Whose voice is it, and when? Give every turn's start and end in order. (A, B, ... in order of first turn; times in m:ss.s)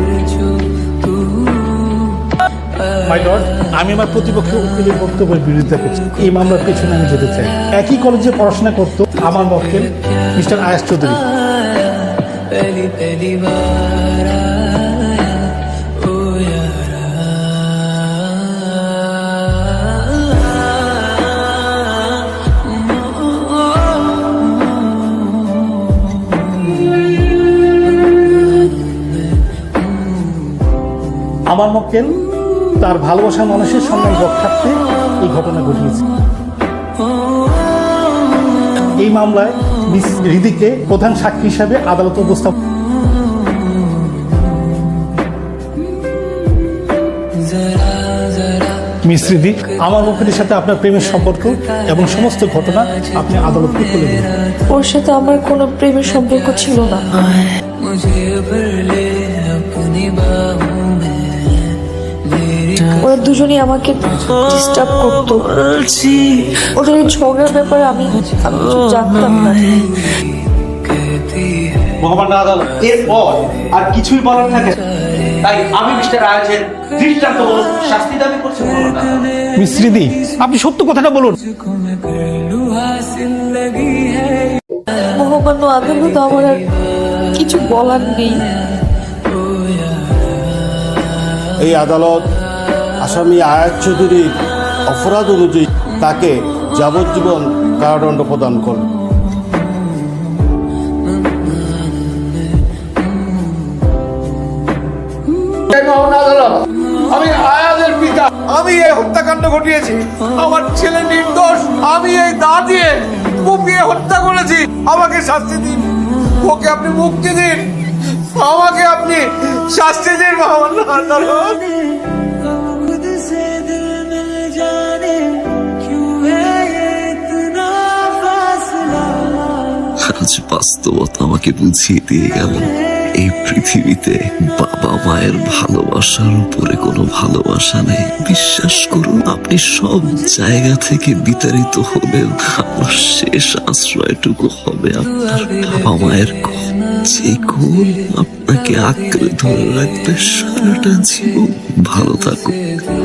0:03.1-0:11.2 A
0:31.5-0:32.2 A
0:32.8-0:36.0 A
0:39.0-0:42.5 A
0:49.0-0:54.3 A
0:54.7-0:57.1 B
1:03.0-1:06.2 B
1:06.7-1:10.0 B
1:12.0-1:14.8 C
1:15.4-1:19.1 C
1:19.6-1:21.4 A
1:25.2-1:26.6 B
1:27.3-1:28.3 B
1:31.6-1:32.2 D
1:33.0-1:34.3 D
1:34.9-1:38.8 D
1:45.7-1:46.5 E
1:47.1-1:55.9 E
1:56.4-1:57.6 E
1:58.3-2:01.6 E
2:10.2-2:32.6 F